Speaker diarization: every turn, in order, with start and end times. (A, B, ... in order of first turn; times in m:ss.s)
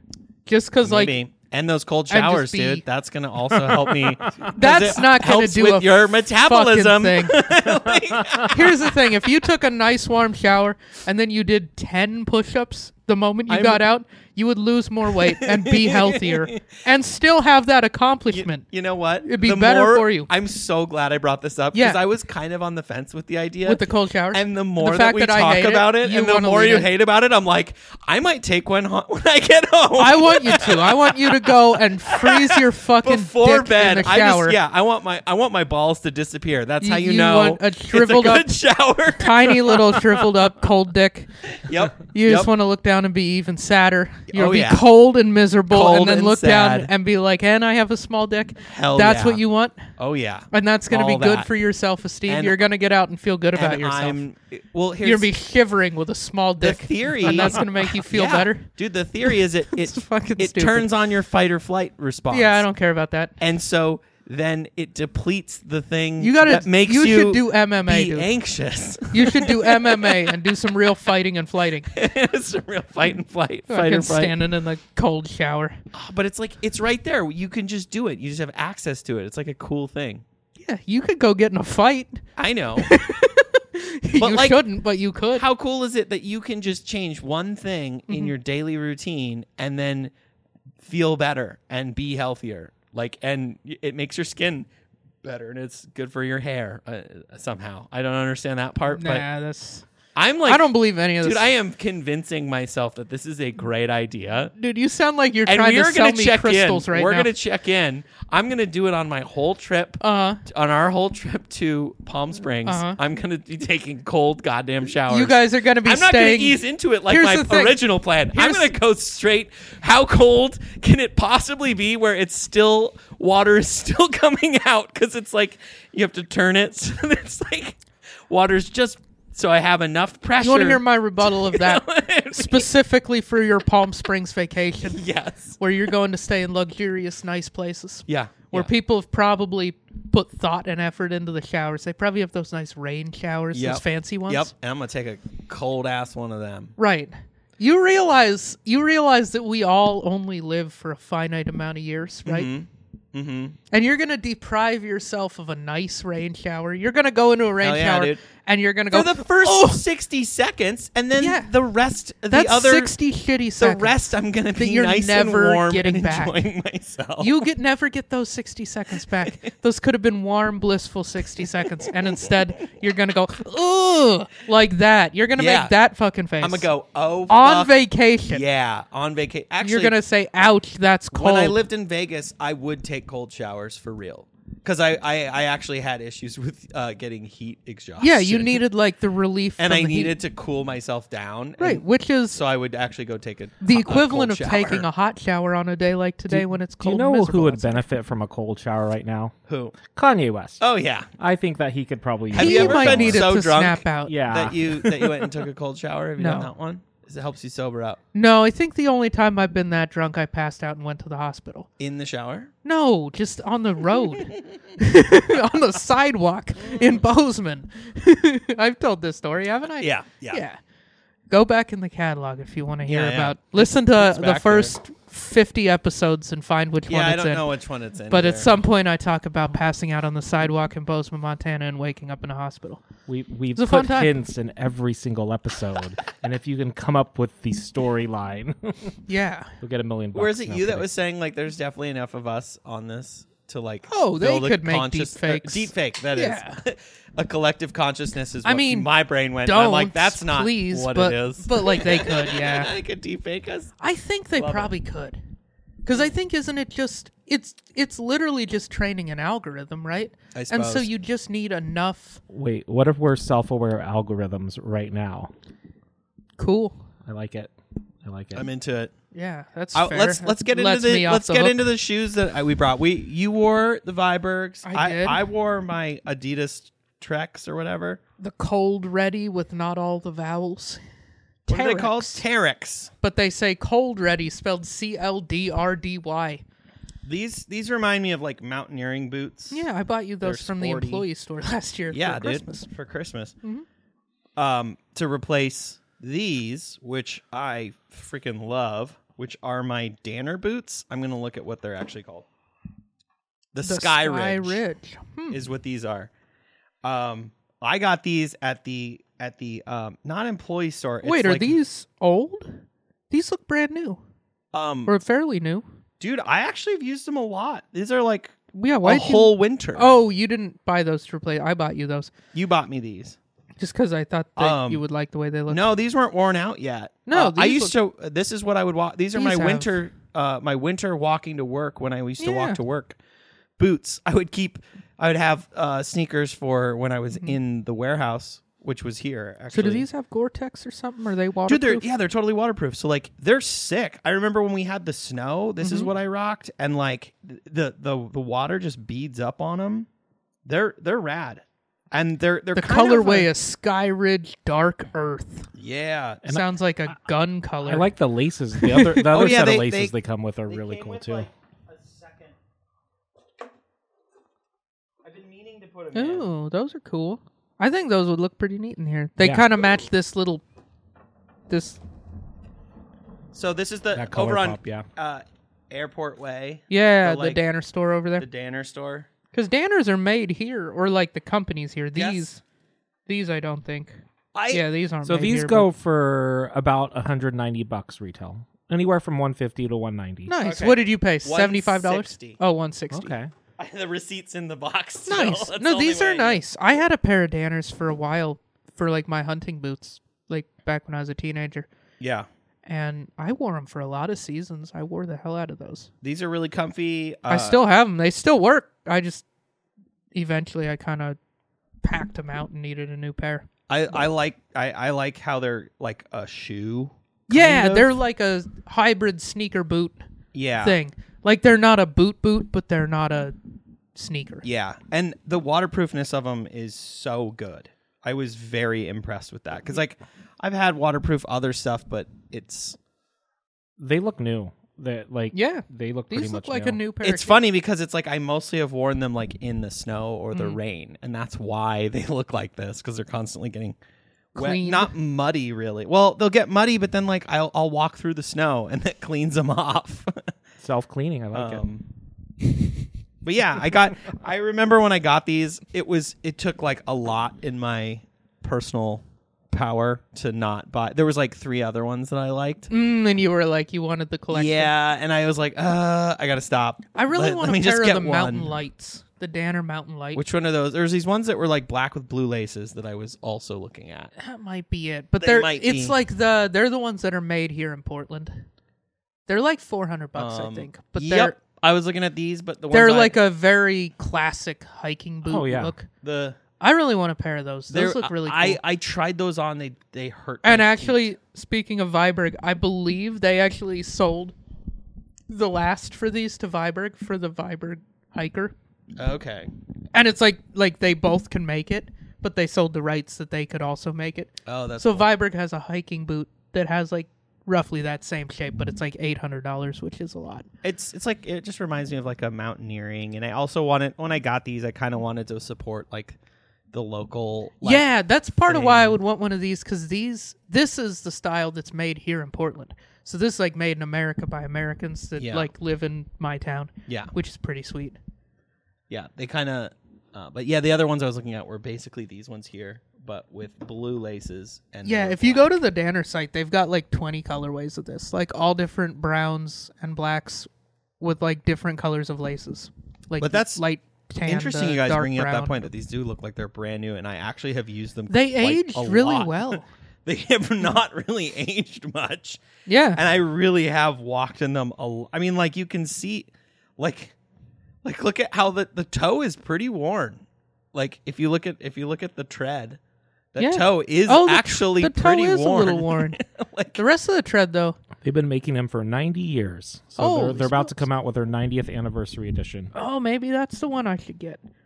0:00.5-0:01.2 A
0:00.8-0:09.2 B
0:02.1-0:02.8 A
0:03.5-0:04.5 C
0:04.5-0:07.5 A
0:08.4-0:18.7 A
0:13.5-0:13.9 B
0:15.2-0:16.6 B
0:18.3-0:40.3 B
0:19.2-0:20.3 A
0:21.7-0:22.0 A
0:23.6-0:26.9 A
0:30.0-0:34.6 A
0:36.8-0:38.6 A
0:39.2-0:41.3 A
0:41.6-0:42.5 B
0:42.1-0:49.9 A
0:44.3-0:44.9 B
0:45.7-0:46.9 B
0:48.6-0:49.4 B
0:50.0-0:51.5 B
0:50.5-0:54.2 A
0:52.3-0:52.6 B
0:53.6-0:55.3 B
0:55.0-0:58.7 A
0:56.6-1:02.7 B
0:59.2-1:00.9 A
1:02.3-1:03.4 A
1:03.4-1:10.6 B
1:06.2-1:08.3 A
1:09.1-1:11.9 A
1:11.9-1:14.4 B
1:13.7-1:15.8 A
1:15.9-1:20.2 B
1:20.6-1:22.2 A
1:22.4-1:22.9 B
1:22.8-1:25.4 A
1:24.2-1:24.6 B
1:25.4-1:30.1 B
1:30.8-1:34.7 B
1:35.2-1:39.2 B
1:38.9-1:39.9 A
1:40.2-1:44.5 B
1:40.4-1:41.5 A
1:44.6-1:47.3 A
1:45.5-2:12.7 B
1:50.0-1:50.4 A
1:52.7-1:53.0 A
1:55.1-1:57.8 A
1:58.3-1:58.7 A
2:10.4-2:15.0 A
2:14.9-2:15.6 B
2:15.6-2:24.5 A
2:18.1-2:18.7 B
2:23.5-2:26.7 B
2:26.8-2:32.5 A
2:32.3-2:33.6 B
2:33.7-2:39.8 A
2:37.6-2:38.2 B
2:38.9-2:42.9 B
2:41.2-2:41.5 A
2:42.3-2:44.0 A
2:43.6-2:47.5 B
2:44.6-2:46.4 A
2:47.2-2:56.7 A
2:55.4-2:55.7 B
2:56.4-3:00.0 B
2:57.3-2:58.4 A
2:59.6-3:01.6 A
3:01.1-3:08.6 B
3:08.0-3:10.1 A
3:09.6-3:14.9 B
3:11.6-3:12.4 A
3:13.6-3:17.8 A
3:16.3-3:19.3 C
3:19.5-3:19.8 B
3:19.8-3:20.6 C
3:20.6-3:21.1 B
3:21.2-3:23.3 C
3:22.3-3:28.0 B
3:22.4-3:24.2 A
3:24.1-3:25.0 C
3:26.2-3:26.5 A
3:28.1-3:31.7 A
3:31.8-3:32.5 B
3:32.6-3:40.6 A
3:39.8-3:40.4 B
3:41.3-3:47.5 A
3:42.9-3:44.8 B
3:46.9-3:48.5 B
3:48.1-3:52.8 A
3:53.1-3:59.0 C
3:53.6-3:54.1 A
3:59.1-3:59.5 A
3:59.6-4:00.9 C
4:00.2-4:13.8 B
4:03.9-4:06.6 A
4:08.4-4:08.9 A
4:09.4-4:12.7 A
4:13.8-4:15.2 A
4:14.4-4:14.7 B
4:15.8-4:22.2 A
4:20.3-4:20.9 B
4:22.3-4:25.3 C
4:26.4-4:26.8 A
4:27.1-4:28.5 C
4:28.4-4:28.9 B
4:29.1-4:31.7 A
4:29.7-4:38.0 B
4:34.6-4:35.2 A
4:38.2-4:40.8 A
4:41.5-4:42.2 A
4:41.5-4:42.9 B
4:43.0-4:46.4 A
4:47.0-4:49.7 B
4:49.5-4:52.7 A
4:50.2-4:51.1 B
4:51.9-4:53.4 B
4:54.4-5:02.3 B
5:03.5-5:04.6 B
5:03.6-5:05.4 A
5:05.3-5:06.1 B
5:06.8-5:11.6 B
5:11.0-5:14.0 A
5:14.5-5:15.0 B
5:14.9-5:15.7 A
5:16.0-5:19.9 B
5:18.5-5:22.1 A
5:22.3-5:23.2 B
5:23.6-5:25.7 A
5:24.4-5:24.8 B
5:25.5-5:33.0 B
5:27.1-5:27.8 A
5:29.1-5:29.7 A
5:32.2-5:32.6 A
5:33.6-5:39.9 B
5:39.5-5:41.9 A
5:41.5-5:49.9 B
5:45.6-5:45.9 A
5:50.5-5:53.3 B
5:52.6-5:55.5 A
5:55.6-5:56.2 B
5:56.3-5:57.9 A
5:57.6-6:01.3 C
5:58.5-5:59.1 A
5:59.0-6:00.0 B
6:00.5-6:02.3 B
6:05.0-6:06.3 B
6:05.9-6:10.4 A
6:09.2-6:09.5 C
6:11.5-6:11.8 A
6:13.3-6:17.4 B
6:13.9-6:14.9 C
6:16.7-6:18.2 A
6:18.2-6:19.1 B
6:19.3-6:22.4 A
6:22.0-6:22.3 B
6:23.1-6:24.0 A
6:24.3-6:24.6 B
6:24.5-6:25.7 A
6:25.0-6:30.4 C
6:30.3-6:33.2 A
6:30.4-6:32.4 B
6:32.9-6:33.3 C
6:33.6-6:36.4 B
6:35.1-6:41.7 A
6:42.0-6:42.3 B
6:42.7-6:45.9 A
6:46.0-6:47.6 B
6:47.3-6:49.2 A
6:50.1-6:51.2 A
6:51.8-6:54.0 A
6:53.7-6:57.9 B
6:57.3-7:00.0 A
7:00.3-7:00.8 B
7:00.6-7:03.4 A
7:04.0-7:04.4 A
7:04.4-7:12.8 B
7:13.8-7:16.8 C
7:15.3-7:17.4 A
7:17.0-7:23.8 B
7:20.3-7:20.6 A
7:24.4-7:24.9 A
7:24.4-7:30.3 B
7:30.6-7:31.7 C
7:31.3-7:31.9 B
7:33.2-7:42.7 B
7:42.7-7:44.7 A
7:44.3-7:48.6 B
7:47.0-7:50.2 A
7:50.2-7:54.1 B
7:54.2-7:58.4 A
7:55.2-7:56.0 B
7:59.3-8:01.4 A
8:00.2-8:03.2 B
8:02.7-8:05.9 A
8:05.2-8:05.7 C
8:06.0-8:06.4 B
8:06.6-8:08.6 A
8:07.7-8:11.1 B
8:10.4-8:14.4 A
8:15.3-8:18.5 A
8:19.0-8:19.5 B
8:19.9-8:30.5 A
8:24.4-8:25.1 B
8:30.6-8:36.2 B
8:36.7-8:37.9 B
8:37.6-8:48.0 A
8:38.5-8:39.0 B
8:45.2-8:45.5 B
8:46.9-8:47.1 B
8:48.9-8:55.5 B
8:54.8-9:00.5 A
9:01.0-9:05.6 A
9:03.2-9:03.6 B
9:04.3-9:12.4 B
9:08.1-9:09.7 A
9:12.7-9:13.0 A
9:13.0-9:17.1 B
9:17.8-9:20.2 B
9:20.7-9:22.8 B
9:23.3-9:26.8 B
9:23.4-9:26.2 A
9:26.8-9:27.8 A
9:28.0-9:32.7 C
9:30.0-9:30.8 A
9:32.7-9:34.4 A